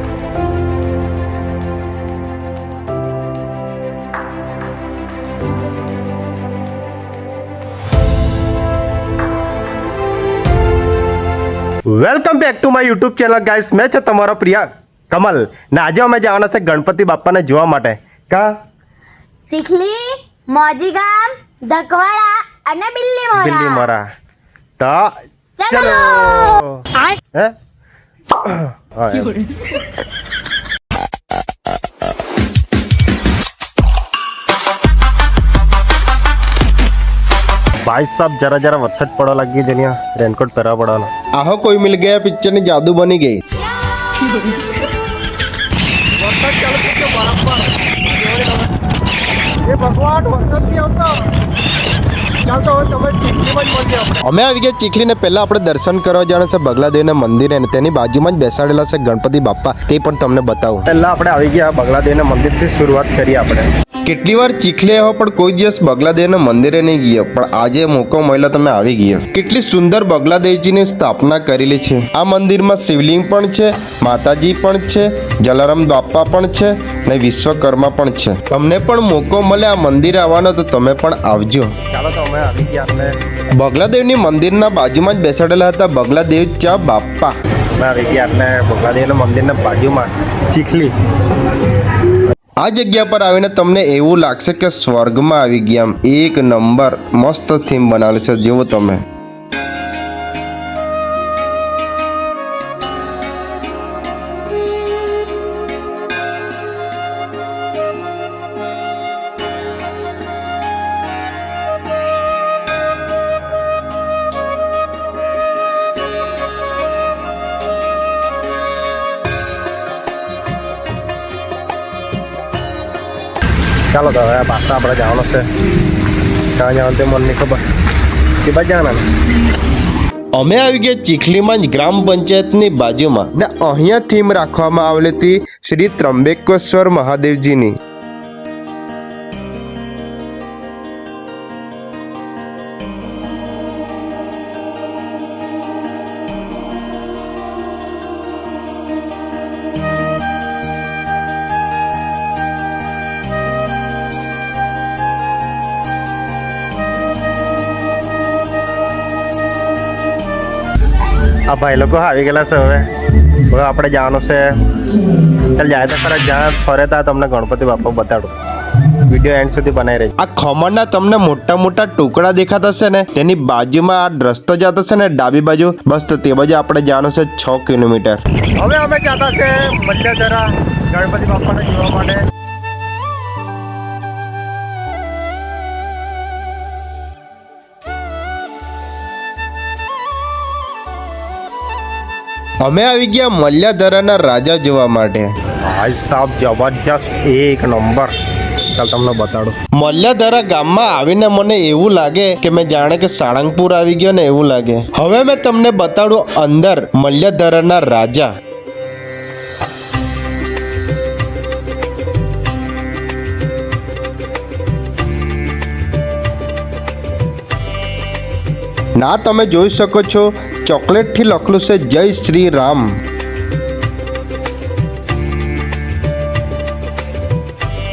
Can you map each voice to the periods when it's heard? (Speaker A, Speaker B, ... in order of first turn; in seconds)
Speaker A: 11.9-18.6, 23.4-24.0, 24.8-25.1, 25.7-27.5, 28.4-29.8, 37.9-41.1, 46.2-48.7, 49.6-51.2, 52.5-54.3, 60.9-63.7, 81.9-83.2, 87.8-90.9, 123.9-125.5, 126.6-127.6, 128.4-129.0, 161.5-162.9, 163.5-164.6, 165.5-168.3, 169.1-170.1, 178.6-182.2, 195.6-198.1, 198.7-199.6
Speaker B: 19.5-23.9, 25.6-26.6
Speaker C: 41.4-43.4, 54.3-60.9, 64.0-81.8, 83.6-87.3, 92.6-99.0, 130.4-137.8, 170.2-178.2, 192.6-195.3, 199.7-208.3, 219.0-222.9